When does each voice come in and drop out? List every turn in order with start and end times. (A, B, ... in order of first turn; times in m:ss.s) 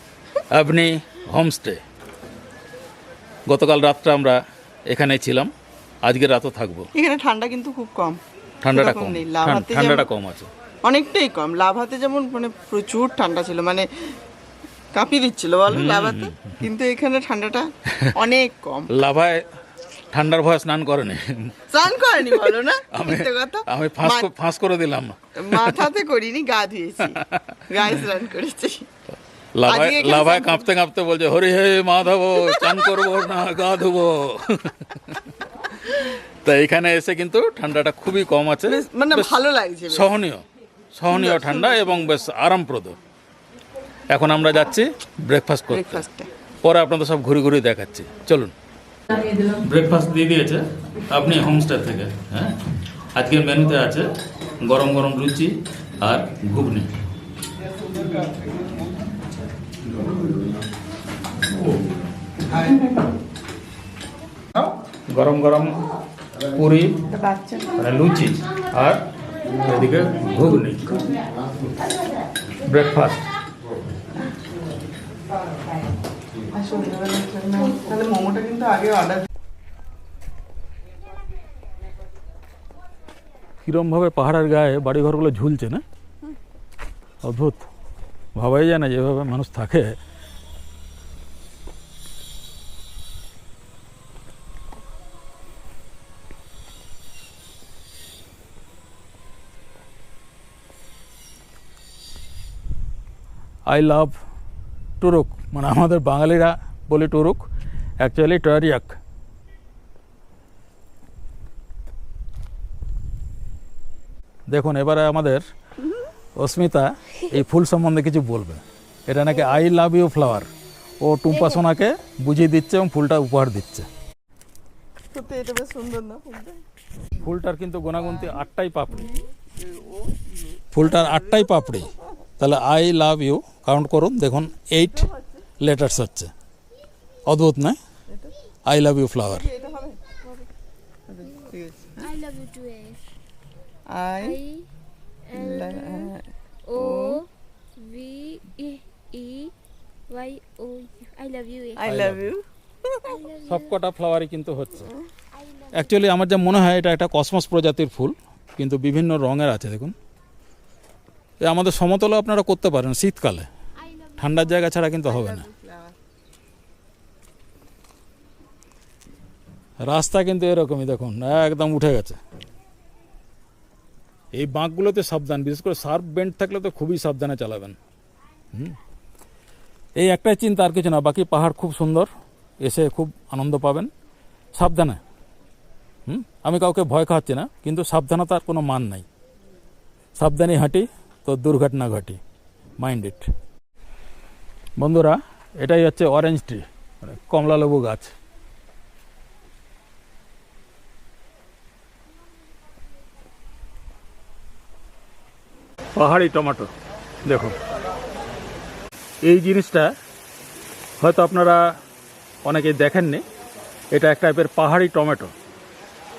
0:00.5-0:01.8 A
0:03.5-0:05.5 A
0:06.0-0:06.9 A
0:07.0-0:08.2 B
0:08.6-0:10.5 A
0:08.7-0:10.1 B
0:10.8-0:13.9 B
0:14.9-0:18.9 B
0:15.7-0:16.6 A
0:18.9-0:19.5 A
0:20.1-0:21.6 A
0:21.7-0:24.3 B
0:22.9-0:25.8 A
0:25.4-0:27.2 B
0:27.7-0:28.9 B
0:29.5-0:35.2 A
0:29.7-0:30.6 B
0:32.5-0:33.2 B
0:35.8-0:39.3 A
0:38.7-0:40.1 B
0:39.9-0:43.0 A
0:41.1-0:42.0 B
0:44.1-0:46.1 A
0:45.7-0:46.3 B
0:46.6-0:48.5 A
0:49.3-0:56.9 A
1:04.6-1:05.8 A
1:06.5-1:06.9 A
1:07.1-1:07.8 B
1:07.8-1:11.0 A
1:12.6-1:13.3 A
1:16.5-1:19.3 B
1:23.6-1:25.8 A
1:27.2-1:27.7 A
1:28.4-1:30.0 A
1:43.7-1:44.1 A
1:45.0-1:47.5 A
1:48.0-1:49.0 A
1:54.5-1:55.4 A
1:56.4-2:03.9 A
2:05.1-2:06.6 B
2:07.2-2:09.2 A
2:10.7-2:15.1 A
2:15.6-2:16.3 A
2:17.3-2:17.8 A
2:18.7-2:19.5 A
2:19.4-2:20.0 B
2:21.1-2:22.1 B
2:22.0-2:23.0 C
2:23.9-2:24.4 B
2:24.2-2:24.6 C
2:25.3-2:26.1 C
2:25.4-2:26.2 B
2:26.7-2:27.3 C
2:26.8-2:27.2 B
2:27.8-2:29.5 C
2:30.1-2:31.9 C
2:31.8-2:33.1 B
2:31.8-2:32.3 A
2:33.0-2:33.7 C
2:33.5-2:34.9 A
2:35.3-2:36.0 C
2:35.7-2:40.0 A
2:41.4-2:43.5 A
2:43.8-2:44.7 C
2:44.2-2:45.5 A
2:45.1-2:45.9 B
2:49.8-2:52.2 A
2:54.3-2:57.8 A
3:00.0-3:02.1 A
3:02.6-3:03.9 A
3:04.5-3:05.0 A
3:06.1-3:09.1 A
3:10.2-3:12.2 A
3:12.8-3:13.3 A
3:14.8-3:18.1 A
3:26.0-3:26.7 A
3:27.2-3:27.6 A
3:29.2-3:30.0 A
3:31.0-3:31.8 A
3:32.4-3:33.2 A
3:33.9-3:35.3 A